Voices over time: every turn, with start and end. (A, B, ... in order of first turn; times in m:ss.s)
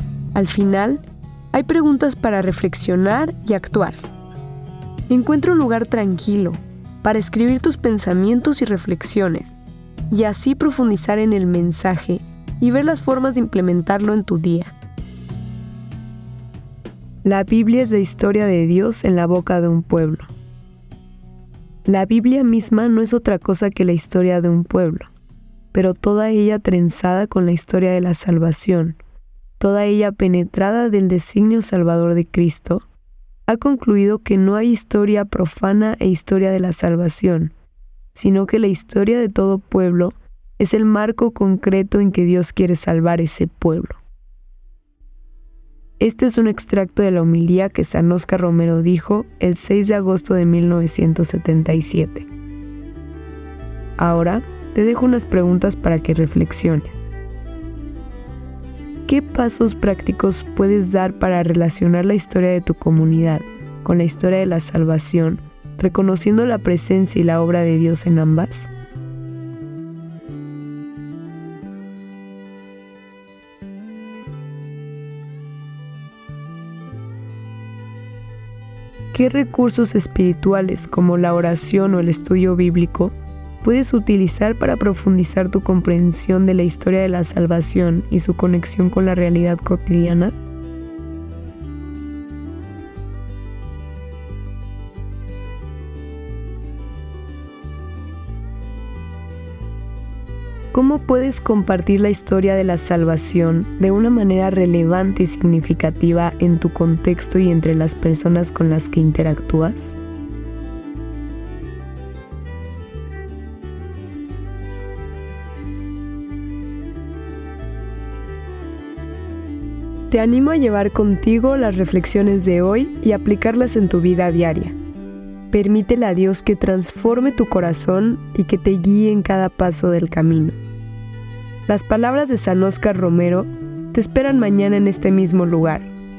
0:00.3-0:04.0 A
0:05.1-0:14.7 A
0:17.2-0:20.3 A
0:21.9-0:25.1 A
0:25.7-0:29.0 A
0:29.6-0:32.9 A
0:33.5-0:37.5 A
0:38.1-0:44.0 A
0:46.0-0:52.3 A
0:54.0-0:57.1 A
0:59.1-1:08.7 A
1:19.1-1:30.4 A
1:40.7-1:50.0 A
2:00.1-2:04.8 A
2:05.5-2:10.6 A
2:11.7-2:15.9 A